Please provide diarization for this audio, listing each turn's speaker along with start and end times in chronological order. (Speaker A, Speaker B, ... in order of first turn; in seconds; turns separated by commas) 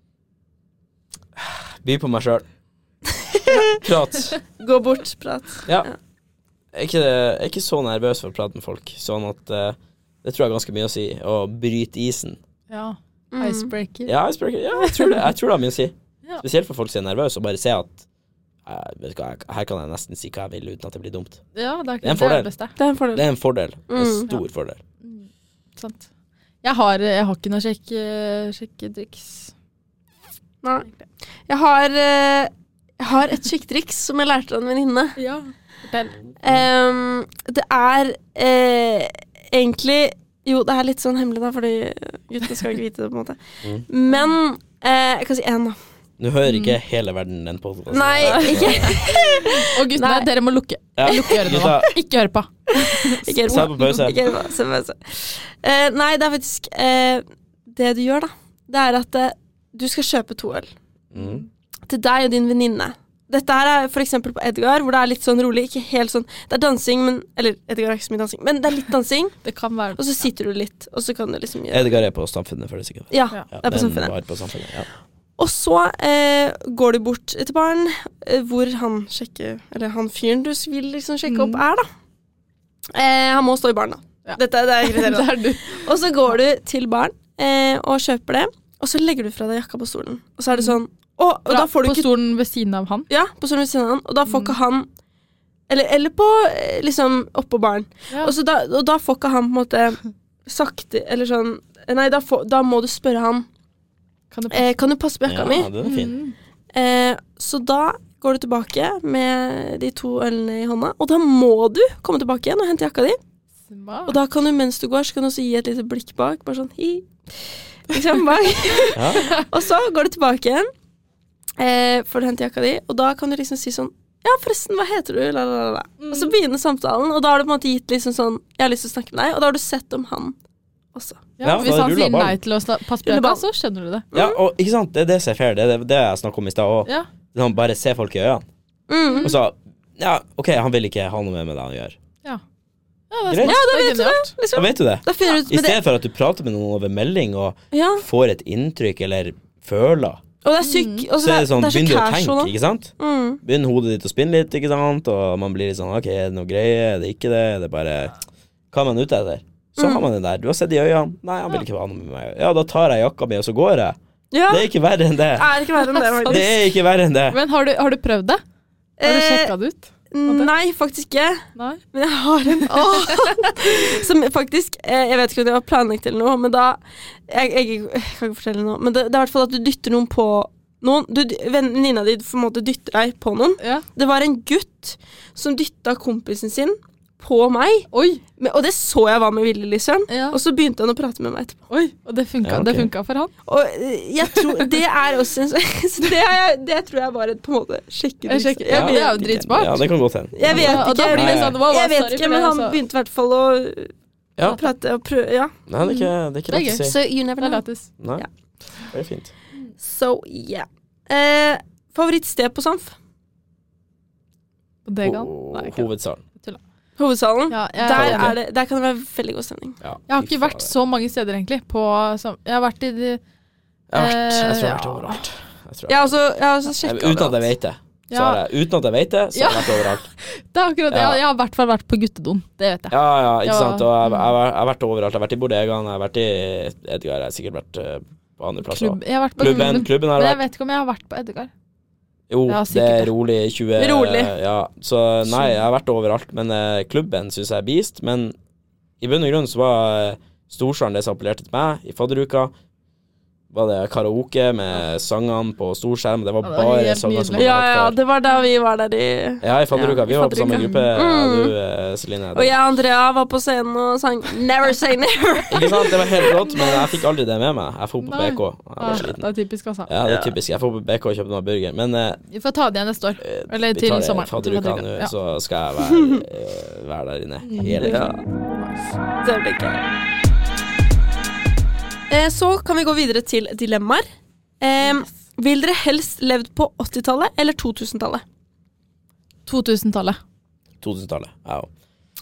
Speaker A: 1.4-2.4, Speaker B: 3.2-3.8, Speaker A: 3.8-4.4, Speaker B: 4.6-5.9, Speaker A: 6.7-12.4, Speaker C: 12.7-14.1, Speaker B: 13.3-13.7, Speaker A: 14.1-18.0, Speaker C: 14.7-15.2, Speaker A: 18.6-21.4, Speaker C: 21.5-22.7, Speaker A: 22.0-22.5, Speaker B: 22.8-23.2, Speaker A: 23.1-24.8, Speaker B: 23.9-24.3, Speaker C: 25.0-26.1, Speaker C: 26.6-29.5, Speaker B: 30.6-30.9, Speaker B: 31.5-35.2, Speaker C: 35.2-36.1, Speaker B: 36.4-45.8, Speaker A: 46.2-49.0, Speaker C: 46.4-46.8, Speaker B: 47.9-50.3, Speaker C: 48.2-53.7, Speaker A: 51.0-51.9, Speaker B: 52.8-60.7, Speaker A: 53.4-54.2, Speaker A: 61.1-61.4, Speaker B: 61.9-69.4, Speaker C: 69.4-70.2, Speaker B: 70.0-71.9, Speaker A: 71.7-74.9, Speaker B: 73.1-74.1, Speaker B: 75.4-81.9, Speaker C: 81.3-81.6, Speaker B: 82.9-92.1, Speaker C: 84.2-85.9, Speaker C: 91.5-93.1, Speaker B: 93.1-94.9, Speaker C: 94.3-94.5, Speaker B: 95.7-103.5, Speaker C: 104.3-104.7, Speaker B: 104.5-105.7, Speaker A: 105.2-106.2, Speaker C: 105.8-106.3, Speaker B: 106.7-113.2, Speaker C: 113.7-114.2, Speaker B: 114.1-120.7, Speaker A: 118.9-119.4, Speaker C: 119.1-119.4, Speaker B: 121.6-130.3, Speaker C: 126.0-126.3, Speaker B: 130.9-131.3, Speaker C: 131.4-134.1, Speaker A: 131.4-132.4, Speaker B: 133.0-133.4, Speaker B: 134.1-134.4, Speaker A: 134.1-138.4, Speaker B: 138.9-139.3, Speaker C: 139.1-139.3, Speaker A: 139.2-142.0, Speaker C: 143.1-144.3, Speaker A: 143.3-143.6, Speaker B: 143.4-145.8, Speaker A: 144.5-150.2, Speaker B: 147.7-148.0, Speaker B: 150.4-153.4, Speaker C: 150.6-151.0, Speaker A: 151.2-158.2, Speaker A: 158.7-164.0, Speaker B: 159.8-160.0, Speaker B: 164.3-164.7, Speaker A: 164.5-165.5, Speaker B: 165.3-166.5, Speaker C: 165.9-166.3, Speaker A: 166.3-167.4, Speaker C: 167.3-168.4, Speaker B: 169.0-169.5, Speaker C: 169.0-170.5, Speaker B: 170.1-191.6, Speaker C: 171.6-171.8, Speaker C: 172.6-173.3, Speaker C: 187.9-188.2, Speaker C: 190.1-190.4, Speaker C: 191.7-193.3, Speaker A: 192.4-192.9, Speaker B: 193.4-199.2, Speaker C: 198.2-199.8, Speaker A: 198.7-201.6, Speaker B: 200.3-203.9, Speaker C: 200.4-202.8, Speaker B: 204.4-205.6, Speaker A: 205.7-207.0, Speaker C: 205.8-207.9, Speaker B: 206.7-207.6, Speaker A: 208.0-208.2, Speaker A: 208.9-209.3, Speaker B: 209.8-212.9, Speaker C: 214.8-215.9, Speaker A: 215.0-216.2, Speaker B: 217.0-219.8, Speaker C: 217.5-218.3, Speaker A: 217.9-218.3, Speaker A: 219.8-220.7, Speaker C: 220.1-223.2, Speaker A: 223.9-226.1, Speaker C: 223.9-225.2, Speaker B: 225.9-227.5, Speaker A: 226.8-230.1, Speaker C: 228.1-228.4, Speaker C: 229.3-234.2, Speaker A: 230.9-231.2, Speaker A: 232.9-240.4, Speaker C: 238.6-241.5, Speaker B: 239.4-239.8, Speaker A: 242.3-248.3, Speaker C: 242.5-243.1, Speaker B: 243.8-244.3, Speaker A: 249.0-252.5, Speaker A: 253.5-257.9, Speaker C: 256.4-257.5, Speaker B: 257.3-261.6, Speaker A: 259.4-262.5, Speaker C: 260.1-260.9, Speaker B: 262.3-266.9, Speaker A: 265.5-269.3, Speaker C: 268.0-269.9, Speaker A: 269.9-272.2, Speaker C: 272.3-275.1, Speaker A: 273.2-278.1, Speaker B: 275.8-276.2, Speaker C: 277.4-278.9, Speaker B: 277.8-278.2, Speaker B: 279.2-279.9, Speaker B: 282.1-284.1, Speaker B: 284.6-288.2, Speaker C: 284.8-285.1, Speaker C: 289.4-290.2, Speaker A: 290.8-291.7